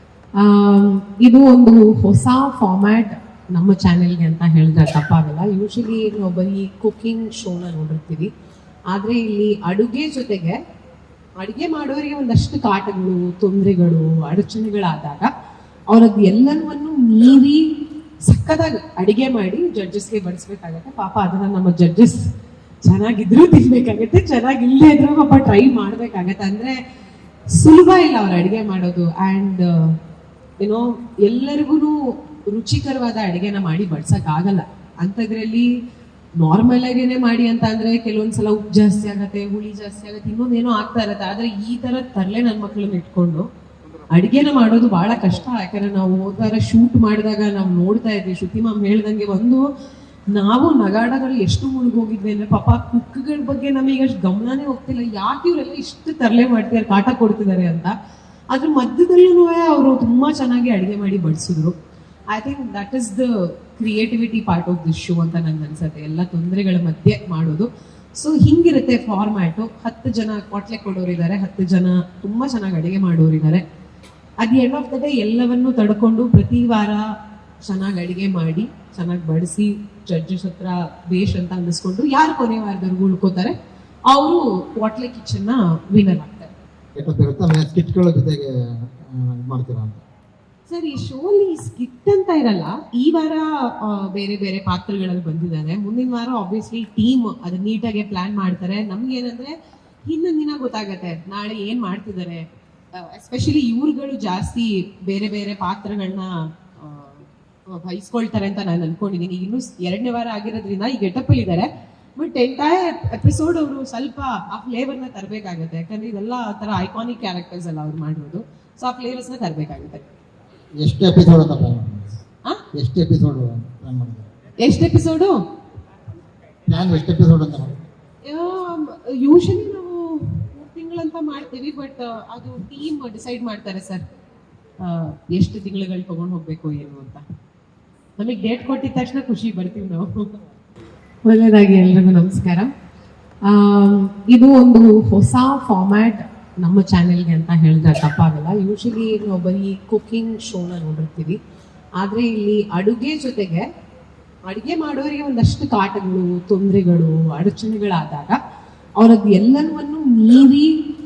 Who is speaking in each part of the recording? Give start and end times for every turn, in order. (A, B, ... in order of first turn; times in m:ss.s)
0:00.4-0:08.3 A
0:08.9-0:10.6 A
0:11.4-0:15.3 A
0:15.9-0:17.6 A
0:18.2-0:22.2 A
0:22.8-0:26.8 A
0:27.5-0:30.0 A
0:30.6-0:35.7 A
0:36.4-0:43.5 A
0:44.1-0:49.6 A
0:50.3-0:57.9 A
0:58.5-1:01.7 A
1:02.3-1:13.6 A
1:14.4-1:17.0 A
1:17.6-1:23.5 A
1:24.1-1:26.5 A
1:27.0-1:30.0 B
1:30.7-1:39.5 A
1:40.1-1:42.4 A
1:43.0-2:00.0 A
2:00.8-2:02.2 B
2:02.7-2:04.3 B
2:04.6-2:05.4 A
2:06.7-2:07.8 B
2:08.2-2:14.0 A
2:14.8-2:17.2 A
2:18.2-2:20.2 A
2:21.2-2:22.7 A
2:23.5-2:31.4 A
2:32.0-2:33.6 A
2:34.5-2:38.4 A
2:39.0-2:40.8 A